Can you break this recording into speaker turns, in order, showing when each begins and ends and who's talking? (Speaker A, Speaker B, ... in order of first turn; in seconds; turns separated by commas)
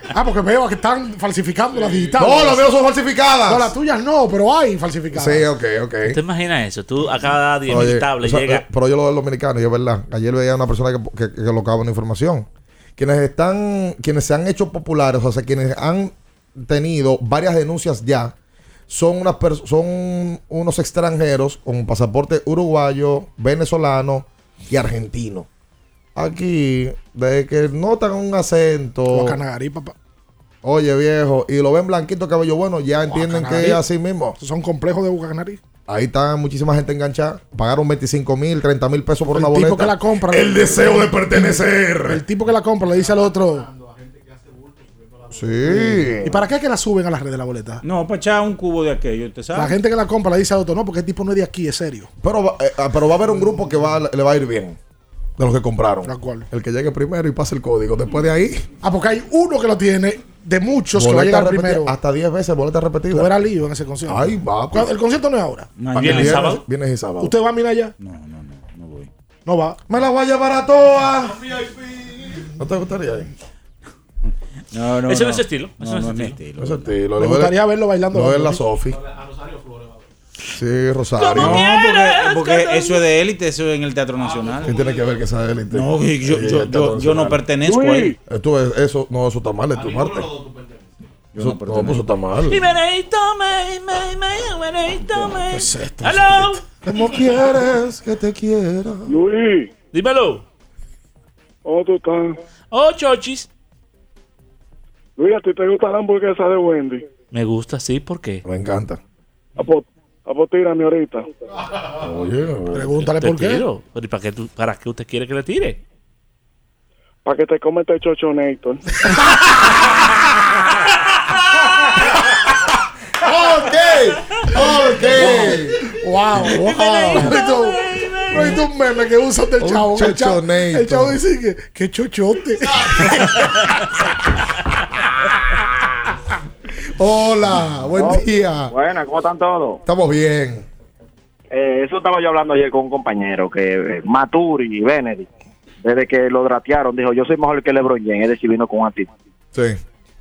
Speaker A: 0.1-2.6, Speaker B: 2.2-3.7, Speaker A: 3.5-5.5, Speaker B: 5.1-6.2, Speaker C: 6.0-8.6, Speaker B: 7.7-18.3, Speaker B: 18.9-25.5, Speaker B: 26.1-29.4, Speaker A: 29.1-29.9, Speaker B: 30.6-34.4, Speaker A: 33.1-33.8, Speaker A: 34.4-35.6, Speaker B: 35.9-42.2, Speaker A: 39.3-43.7, Speaker B: 45.3-46.4, Speaker A: 45.7-47.8, Speaker D: 47.8-49.8, Speaker A: 49.5-52.1, Speaker B: 52.2-54.8, Speaker B: 55.4-58.7, Speaker A: 56.0-56.5, Speaker A: 58.8-61.9, Speaker B: 60.9-63.4, Speaker A: 63.1-65.7, Speaker B: 64.1-64.9, Speaker D: 65.8-66.6, Speaker C: 65.9-66.6, Speaker B: 66.0-67.3, Speaker A: 67.2-67.9, Speaker D: 68.0-69.1, Speaker A: 69.5-69.8, Speaker B: 69.9-71.5, Speaker B: 72.6-73.3, Speaker D: 74.7-77.0, Speaker C: 75.1-76.4, Speaker B: 76.6-77.5, Speaker A: 77.2-78.6, Speaker B: 78.1-79.0, Speaker B: 80.6-81.6, Speaker C: 81.2-83.1, Speaker D: 81.3-84.8, Speaker B: 84.6-87.4, Speaker D: 85.7-88.2, Speaker E: 87.6-88.1, Speaker B: 88.3-90.4, Speaker D: 91.3-92.0, Speaker B: 91.3-92.6, Speaker C: 92.5-96.6, Speaker A: 95.5-96.6, Speaker B: 96.8-99.1, Speaker E: 99.1-99.7, Speaker C: 99.9-100.4, Speaker E: 101.6-102.4, Speaker C: 102.7-103.5, Speaker E: 105.2-107.1, Speaker C: 107.3-108.4, Speaker B: 108.4-109.0, Speaker E: 109.6-111.3, Speaker B: 112.0-112.9, Speaker A: 112.7-113.6, Speaker C: 113.2-115.8, Speaker E: 117.2-119.2, Speaker A: 120.0-120.6, Speaker C: 121.2-121.7, Speaker B: 123.2-125.8, Speaker A: 125.1-133.7, Speaker B: 126.3-127.4, Speaker C: 126.5-128.6, Speaker B: 129.6-131.2, Speaker B: 136.9-138.7, Speaker F: 138.0-139.8, Speaker B: 139.8-140.7, Speaker F: 141.5-145.3, Speaker F: 145.8-149.1, Speaker B: 149.5-149.8